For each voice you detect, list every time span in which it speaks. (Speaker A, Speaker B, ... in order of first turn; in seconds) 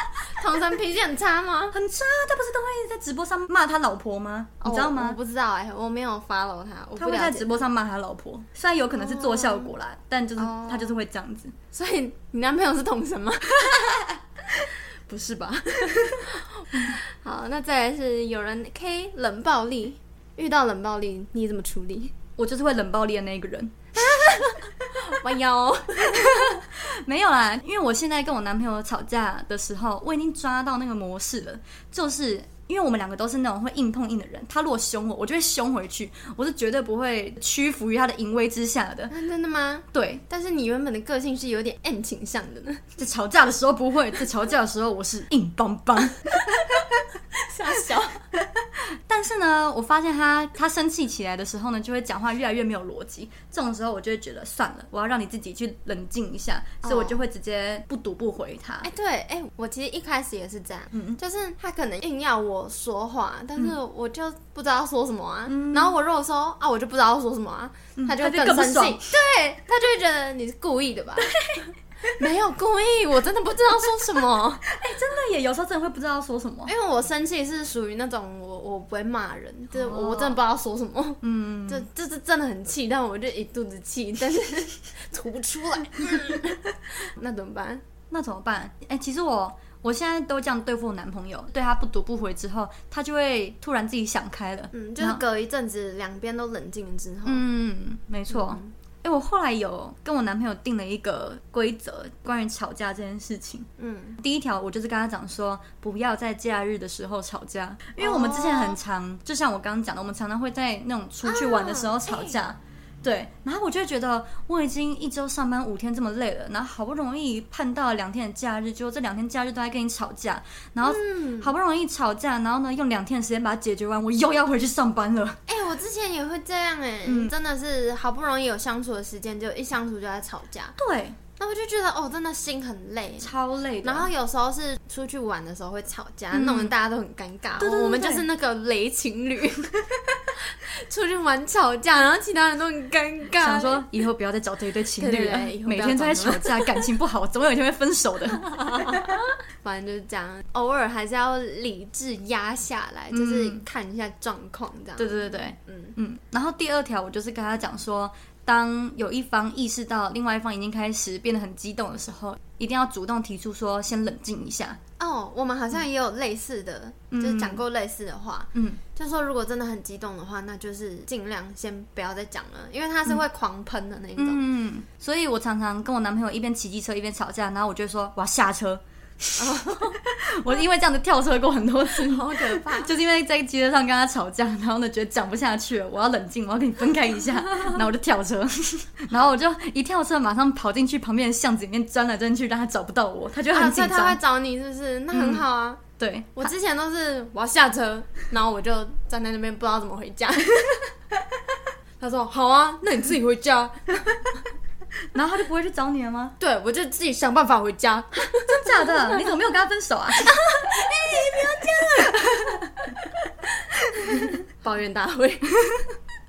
Speaker A: 0.3-1.7, 4.6-7.5, 9.0-9.7, 10.4-11.0, 11.7-14.0, 15.1-22.1, 24.0-26.6, 39.1-42.8, 47.3-48.2, 56.8-57.2, 58.8-74.6, 76.7-87.8, 94.7-97.4, 98.3-98.7, 103.8-104.2, 108.0-108.8, 111.2-112.3, 120.8-121.5, 125.5-130.8, 131.4-133.3, 133.8-143.8, 145.0-146.9, 148.6-155.9, 165.0-174.4, 179.4-180.0, 181.9-182.9, 193.5-195.8, 196.3-200.9, 202.0-204.4, 206.4-209.3, 210.2-215.8
Speaker B: 1.7-5.2, 7.0-11.5, 22.4-23.8, 26.1-39.1, 39.9-40.2, 43.0-46.7, 49.1-58.9, 60.9-61.2, 65.5-65.9, 68.0-69.1, 74.7-76.7, 79.7-80.4, 81.2-81.8, 88.1-95.2, 97.2-125.4, 127.0-127.3, 130.8-131.2, 133.2-134.1, 136.3-136.7, 137.6-138.2, 143.4-149.1, 153.1-153.6, 155.0-164.8, 167.1-167.6, 168.5-168.8, 174.2-194.2, 195.1-195.4, 196.0-196.5, 205.1-206.3, 208.5-210.4